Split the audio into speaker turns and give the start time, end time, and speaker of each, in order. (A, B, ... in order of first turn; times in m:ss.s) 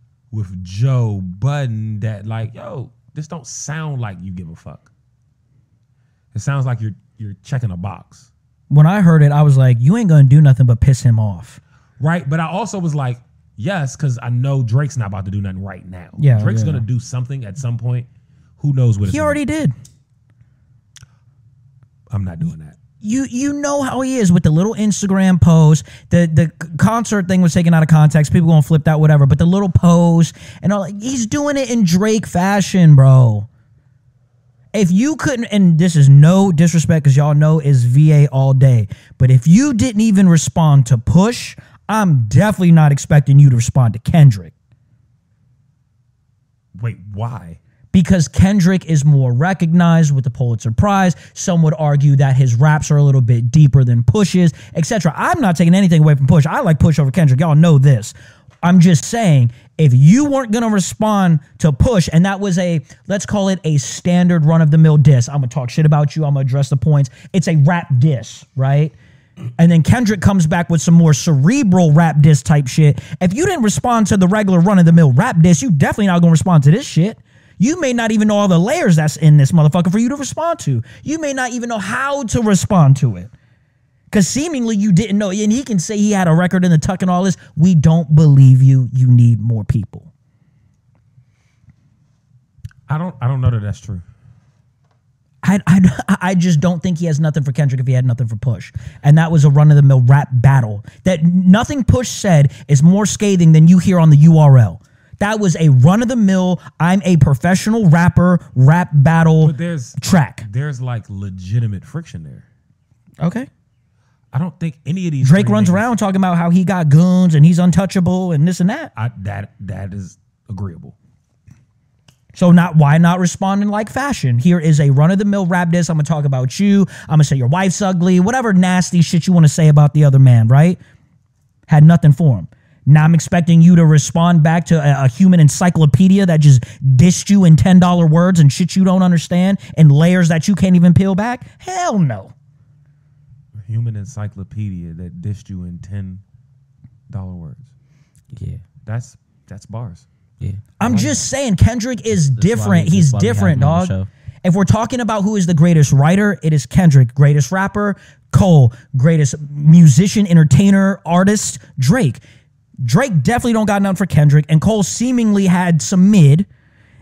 0:00.3-0:04.9 A
0:06.3-0:08.3 A
0:08.7-0:11.6 B
0:12.0-0:19.4 A
0:16.2-0:16.8 B
0:19.0-0:19.7 B
0:22.1-0:22.8 A
0:23.0-0:33.5 B
0:34.7-0:44.5 B
0:46.8-0:47.6 A
0:47.9-1:08.9 B
1:09.6-1:23.3 B
1:24.1-1:30.1 B
1:32.9-1:34.0 A
1:35.4-1:50.4 B
1:49.4-1:52.4 A
1:53.2-1:53.5 B
1:54.3-1:55.9 A
1:55.2-1:58.9 B
1:59.0-2:00.9 A
2:02.3-2:10.8 B
2:11.7-2:22.3 B
2:23.6-2:26.2 A
2:27.1-2:27.7 A
2:28.3-2:28.6 C
2:28.8-2:30.1 A
2:30.4-2:31.1 C
2:30.8-2:42.2 B
2:30.8-2:31.2 A
2:32.1-2:34.1 C
2:42.8-2:46.5 B